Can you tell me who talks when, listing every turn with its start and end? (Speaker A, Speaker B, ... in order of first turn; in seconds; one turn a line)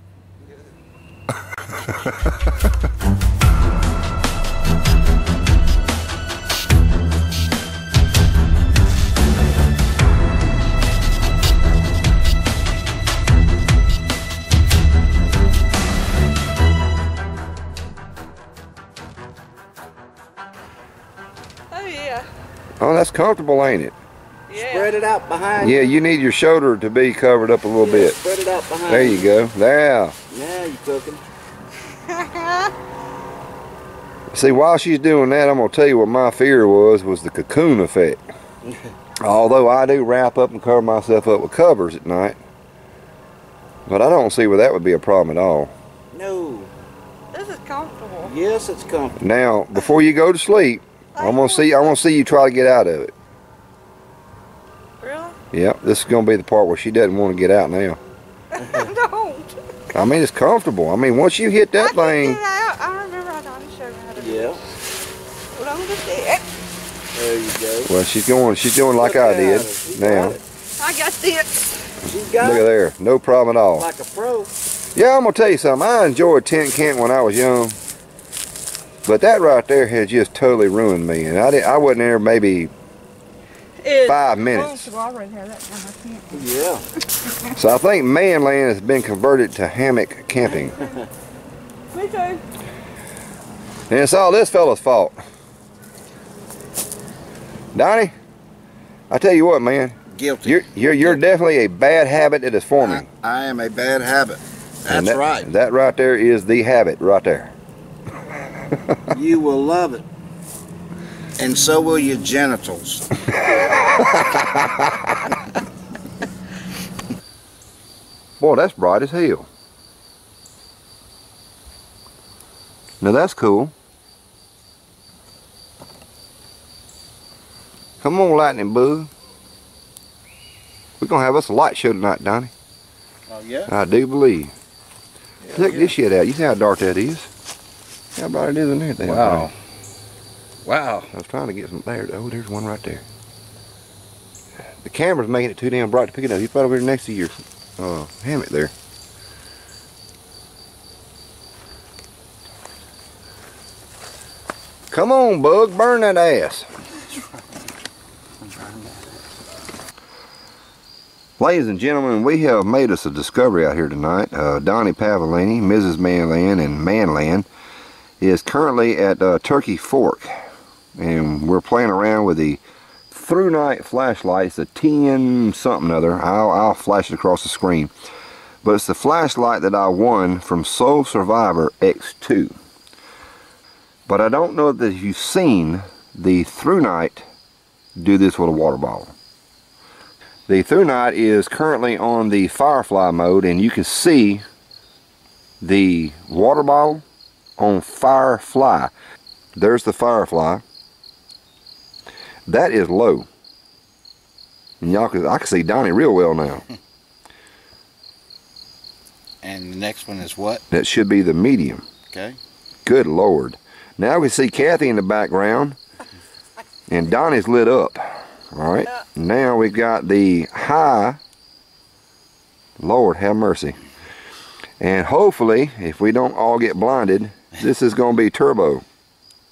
Speaker A: 1.7-2.5
Speaker B: 21.7-22.3
Speaker A: 22.8-23.9
Speaker B: 24.5-24.9
Speaker C: 24.5-25.9
Speaker A: 25.6-28.2
Speaker C: 27.8-29.3
Speaker A: 28.9-30.1
Speaker C: 30.3-31.2
Speaker B: 32.2-32.6
Speaker A: 34.3-38.2
Speaker A: 39.2-42.4
Speaker A: 43.9-45.7
Speaker C: 46.1-46.7
Speaker B: 47.3-48.3
Speaker C: 48.2-49.2
Speaker A: 49.2-53.1
Speaker B: 51.1-52.0
Speaker B: 55.0-55.4
Speaker A: 55.5-58.0
Speaker B: 58.5-59.6
Speaker A: 59.9-62.4
Speaker B: 61.8-64.6
Speaker C: 64.2-64.6
Speaker B: 65.5-66.4
Speaker C: 67.1-67.9
Speaker A: 67.8-70.4
Speaker C: 69.0-70.4
Speaker B: 70.8-71.6
Speaker C: 72.0-72.7
Speaker A: 72.4-73.9
Speaker C: 73.7-74.5
Speaker A: 74.9-77.8
Speaker A: 79.0-82.7
Speaker B: 83.8-86.4
Speaker A: 84.0-84.9
Speaker C: 86.3-86.8
Speaker A: 87.5-90.8
Speaker B: 91.9-92.4
Speaker A: 93.9-95.2
Speaker A: 97.7-98.1
Speaker A: 99.1-103.0
Speaker C: 100.1-101.2
Speaker C: 102.8-105.5
Speaker A: 104.9-107.5
Speaker C: 109.1-110.0
Speaker C: 111.4-113.1
Speaker A: 113.5-115.2
Speaker A: 118.4-119.5
Speaker A: 123.0-123.7
Speaker A: 128.0-129.1
Speaker A: 131.0-132.5
Speaker C: 133.3-133.7
Speaker A: 133.7-134.5
Speaker C: 135.4-135.9
Speaker A: 135.5-137.3
Speaker A: 138.2-139.5
Speaker C: 139.0-139.5
Speaker C: 140.6-141.1
Speaker A: 141.1-143.0
Speaker A: 144.8-148.7
Speaker A: 154.9-156.7
Speaker A: 161.4-167.5
Speaker A: 168.2-170.3
Speaker A: 171.0-177.9
Speaker A: 178.6-182.5
Speaker A: 184.1-187.2
Speaker A: 188.0-189.1
Speaker A: 190.5-194.4
Speaker A: 195.6-197.0
Speaker A: 197.6-198.9
Speaker A: 199.6-200.6
Speaker A: 202.5-203.3
Speaker A: 204.8-206.6
Speaker C: 209.4-210.6
Speaker A: 210.7-211.8
Speaker C: 212.1-212.4
Speaker A: 212.8-215.8
Speaker A: 216.9-221.2
Speaker A: 222.8-223.8
Speaker A: 224.8-228.8